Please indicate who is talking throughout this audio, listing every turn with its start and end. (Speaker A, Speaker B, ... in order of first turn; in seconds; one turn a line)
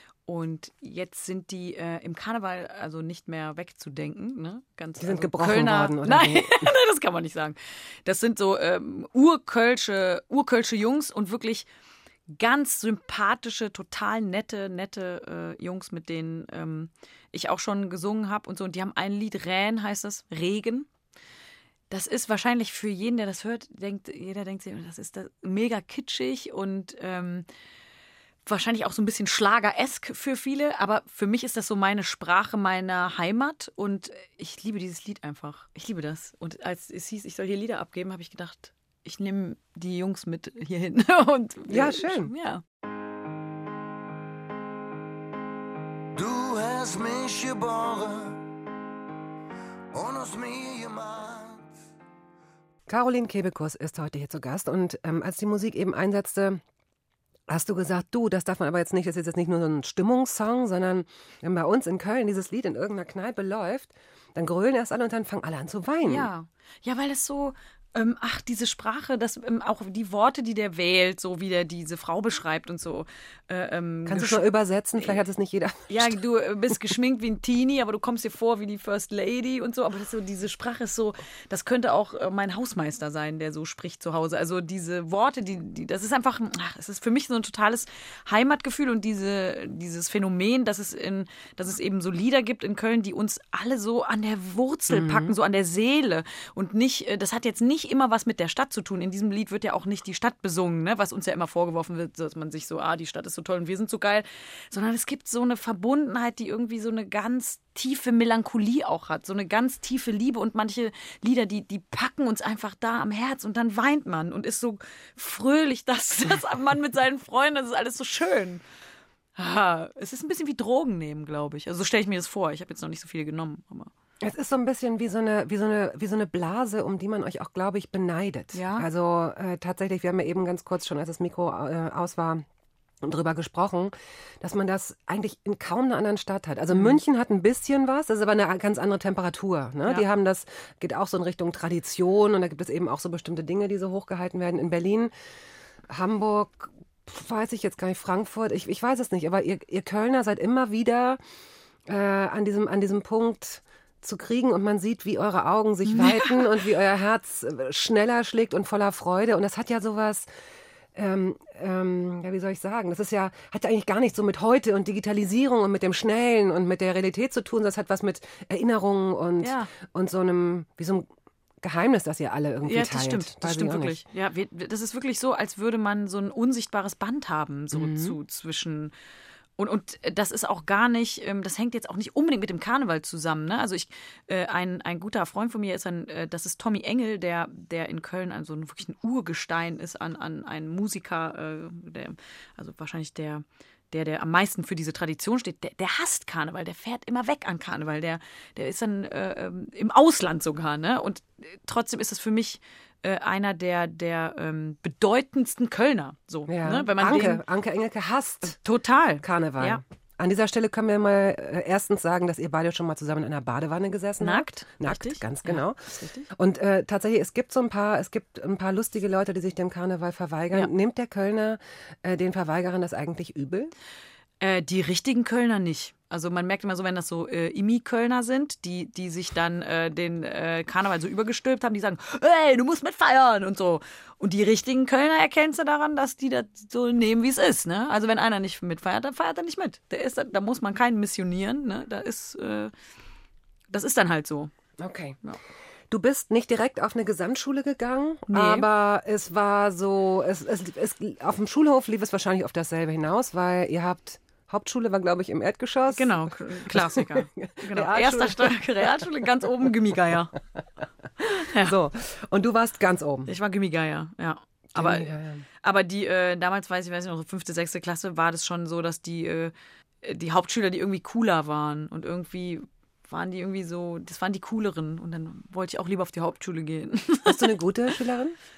Speaker A: 0.3-11.7
Speaker B: 5.0-6.7
Speaker A: 12.3-20.9
Speaker A: 21.9-27.5
Speaker A: 28.5-42.6
Speaker B: 41.7-42.3
Speaker C: 46.2-48.4
Speaker C: 49.9-51.7
Speaker B: 52.9-56.6
Speaker B: 57.5-66.3
Speaker A: 66.0-74.5
Speaker B: 74.1-76.2
Speaker A: 75.9-118.6
Speaker B: 94.9-95.3
Speaker A: 119.4-123.9
Speaker B: 124.2-132.4
Speaker A: 128.5-128.9
Speaker B: 133.0-145.1
Speaker A: 136.7-137.0
Speaker B: 145.9-151.2
Speaker B: 151.9-160.3
Speaker A: 155.8-156.5
Speaker B: 160.9-171.1
Speaker A: 169.4-169.7
Speaker B: 171.6-174.0
Speaker A: 172.7-178.9
Speaker B: 177.7-178.2
Speaker A: 179.6-207.4
Speaker B: 206.5-208.6
Speaker A: 208.5-209.8
Speaker B: 209.2-223.7
Speaker A: 214.2-216.3
Speaker A: 224.4-242.7
Speaker A: 243.7-244.5
Speaker B: 244.8-245.2
Speaker B: 245.9-259.1
Speaker A: 248.3-248.7
Speaker A: 255.9-260.4
Speaker A: 261.2-261.7
Speaker B: 261.4-263.3
Speaker A: 263.3-277.6
Speaker B: 264.8-265.4
Speaker B: 277.2-278.4